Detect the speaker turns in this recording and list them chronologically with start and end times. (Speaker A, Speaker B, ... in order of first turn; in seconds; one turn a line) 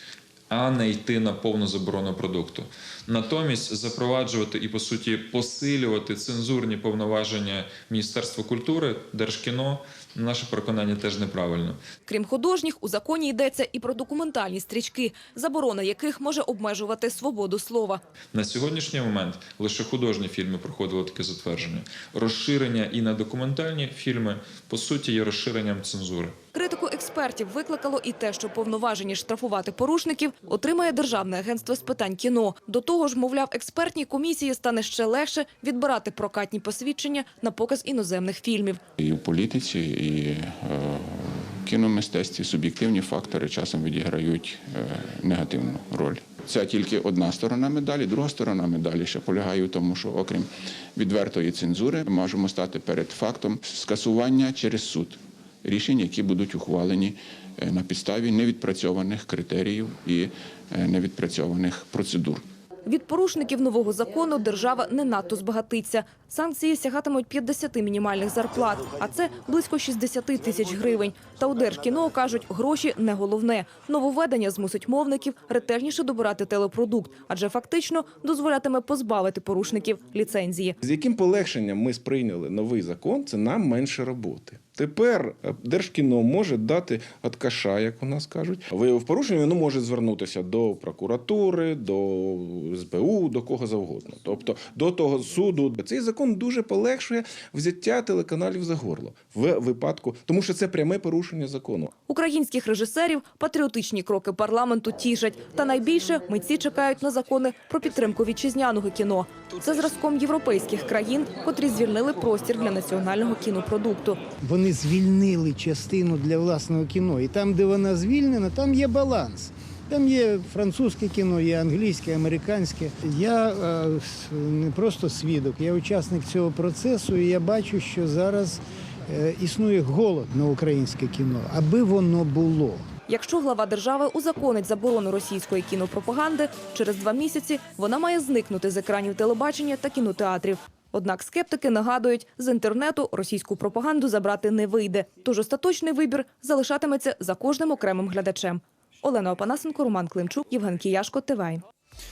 Speaker A: 0.5-11.9
Speaker B: 12.1-18.0
Speaker A: 18.3-26.3
Speaker B: 26.5-38.8
Speaker C: 39.0-62.4
Speaker B: 62.9-80.8
Speaker D: 80.8-101.9
Speaker B: 102.1-114.2
Speaker E: 114.4-132.8
Speaker B: 133.1-151.6